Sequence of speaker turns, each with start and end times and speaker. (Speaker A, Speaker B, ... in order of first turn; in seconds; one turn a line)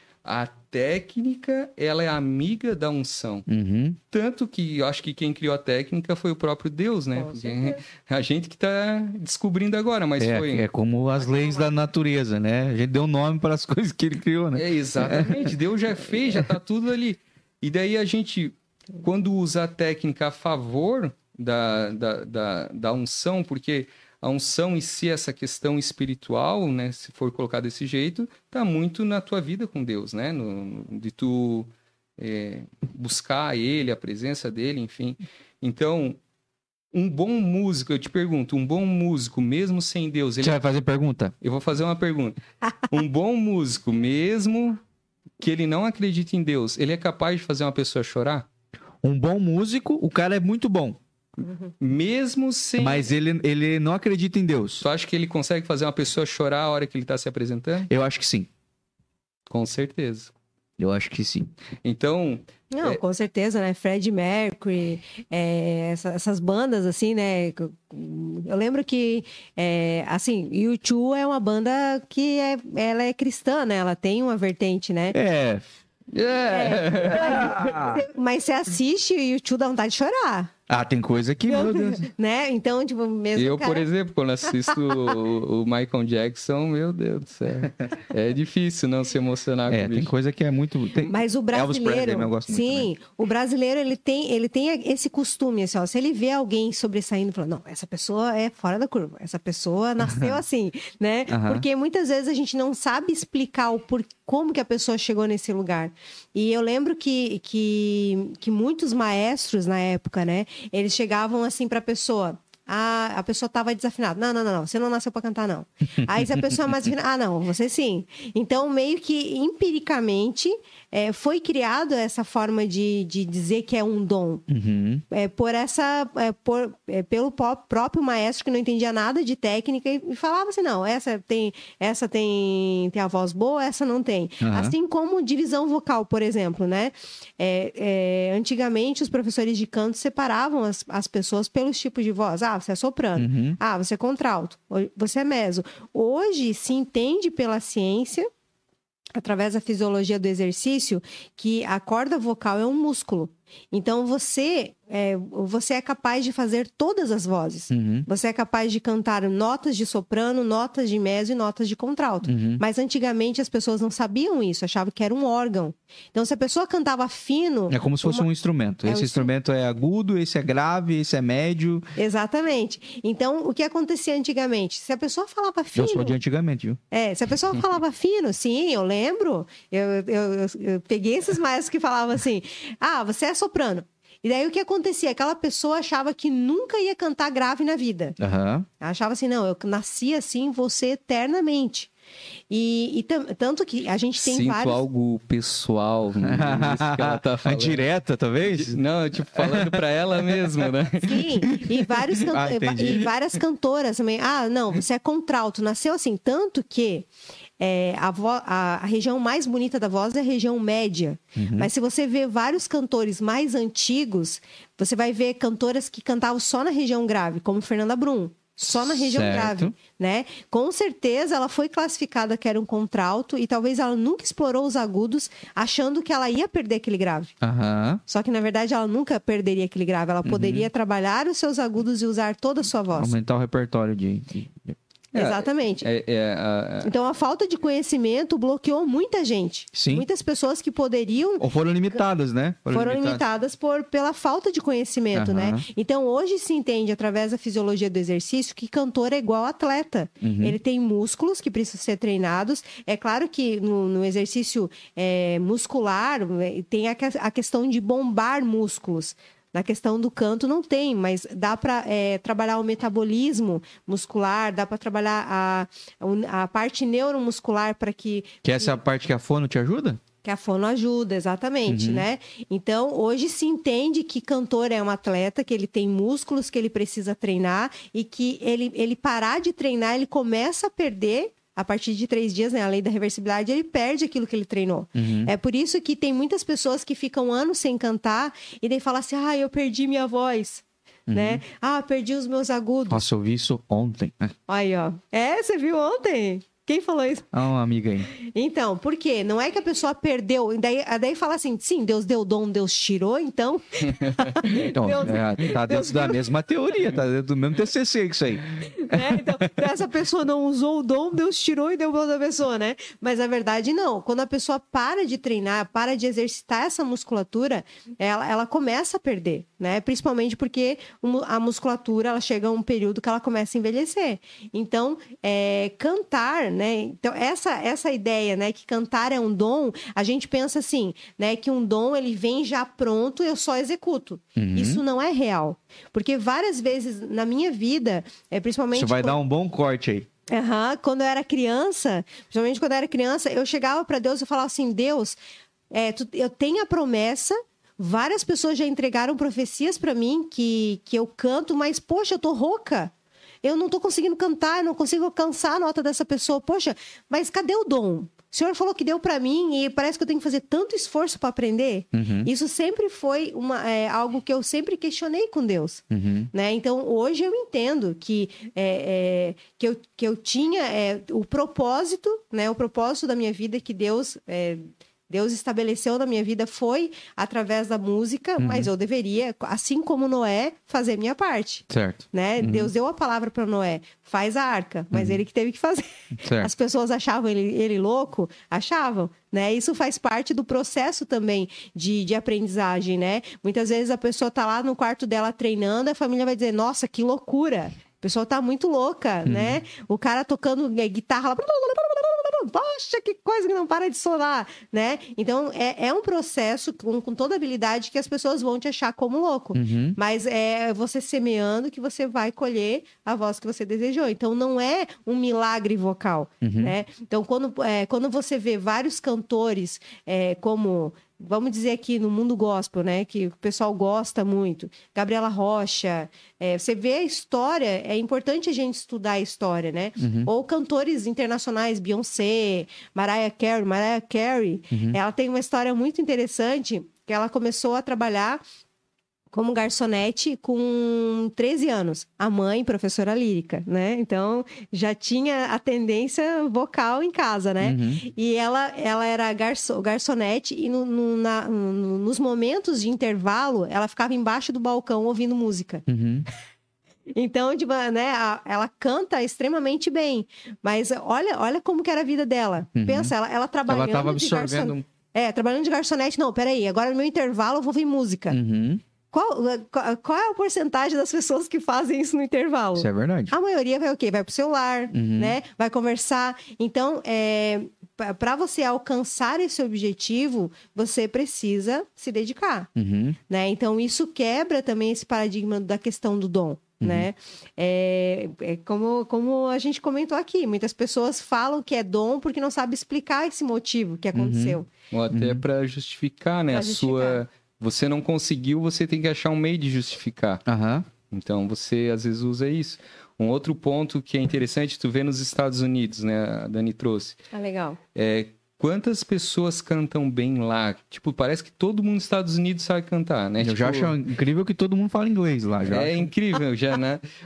Speaker A: 0.2-3.5
Speaker B: 3.5-4.0
Speaker A: 4.1-10.6
Speaker C: 7.2-7.8
Speaker B: 10.2-15.5
Speaker A: 14.5-36.2
Speaker A: 36.9-40.6
Speaker B: 40.4-41.3
Speaker A: 41.4-42.4
Speaker A: 42.9-44.8
Speaker A: 45.4-48.5
Speaker B: 49.0-51.0
Speaker C: 51.4-51.7
Speaker A: 51.8-53.1
Speaker B: 52.8-54.8
Speaker A: 54.8-57.9
Speaker B: 57.9-58.5
Speaker A: 59.5-60.3
Speaker B: 60.8-61.5
Speaker A: 61.8-63.0
Speaker C: 62.7-75.2
Speaker B: 75.1-75.7
Speaker A: 76.1-77.5
Speaker C: 76.5-80.5
Speaker B: 77.1-78.0
Speaker B: 80.7-82.0
Speaker C: 81.5-83.8
Speaker A: 83.3-90.1
Speaker B: 89.7-92.9
Speaker C: 91.0-124.4
Speaker B: 101.3-101.6
Speaker B: 116.0-116.9
Speaker B: 124.5-125.0
Speaker C: 125.1-148.3
Speaker B: 134.4-134.7
Speaker B: 143.2-143.6
Speaker C: 149.2-168.3
Speaker B: 157.7-158.1
Speaker B: 162.2-162.6
Speaker B: 167.7-171.8
Speaker C: 168.8-169.3
Speaker C: 172.0-176.2
Speaker B: 175.7-176.8
Speaker C: 176.9-188.2
Speaker B: 188.2-188.7
Speaker C: 188.8-191.9
Speaker C: 192.5-194.8
Speaker A: 194.2-197.8
Speaker B: 196.2-200.7
Speaker A: 198.5-201.3
Speaker C: 201.0-207.1
Speaker B: 201.5-203.1
Speaker C: 207.6-227.3
Speaker B: 211.3-211.7
Speaker B: 218.7-219.7
Speaker B: 227.4-228.0
Speaker C: 228.1-233.1
Speaker B: 230.2-230.7
Speaker B: 232.9-234.8
Speaker C: 235.1-235.9
Speaker A: 235.1-236.9
Speaker C: 236.8-241.4
Speaker B: 239.7-240.0
Speaker B: 241.4-243.2
Speaker C: 242.7-268.8
Speaker B: 245.1-245.6
Speaker B: 250.2-250.6
Speaker B: 268.4-270.0
Speaker C: 270.2-293.0
Speaker B: 271.7-272.0
Speaker B: 284.9-285.3
Speaker B: 291.1-291.4
Speaker B: 292.9-294.3
Speaker C: 294.5-297.3
Speaker B: 297.3-298.1
Speaker C: 298.1-306.2
Speaker A: 304.1-304.6
Speaker B: 304.7-309.3
Speaker C: 308.6-339.2
Speaker B: 334.4-334.8
Speaker B: 338.7-340.1
Speaker C: 340.3-345.2
Speaker C: 345.7-352.9
Speaker C: 353.4-438.4
Speaker B: 361.9-362.3
Speaker B: 365.9-366.3
Speaker B: 378.4-378.7
Speaker B: 381.7-382.7
Speaker B: 384.9-385.2
Speaker B: 386.2-386.5
Speaker B: 399.2-399.6
Speaker B: 409.5-410.0
Speaker B: 416.4-416.7
Speaker B: 430.0-430.3
Speaker B: 434.7-435.0
Speaker C: 439.3-455.8
Speaker B: 447.6-448.0
Speaker B: 455.9-456.2
Speaker C: 457.1-468.4
Speaker B: 462.8-463.1
Speaker B: 463.7-464.8
Speaker B: 468.3-468.8
Speaker C: 469.1-482.7
Speaker B: 472.8-473.3
Speaker B: 474.9-475.4
Speaker B: 482.8-483.2
Speaker C: 483.3-494.7
Speaker B: 486.8-487.1
Speaker B: 494.1-494.6
Speaker A: 494.9-500.4
Speaker B: 495.1-495.4
Speaker C: 496.5-497.2
Speaker B: 500.4-500.9
Speaker A: 501.1-507.2
Speaker C: 507.3-507.8
Speaker A: 507.9-513.9
Speaker B: 513.4-516.1
Speaker A: 515.6-517.0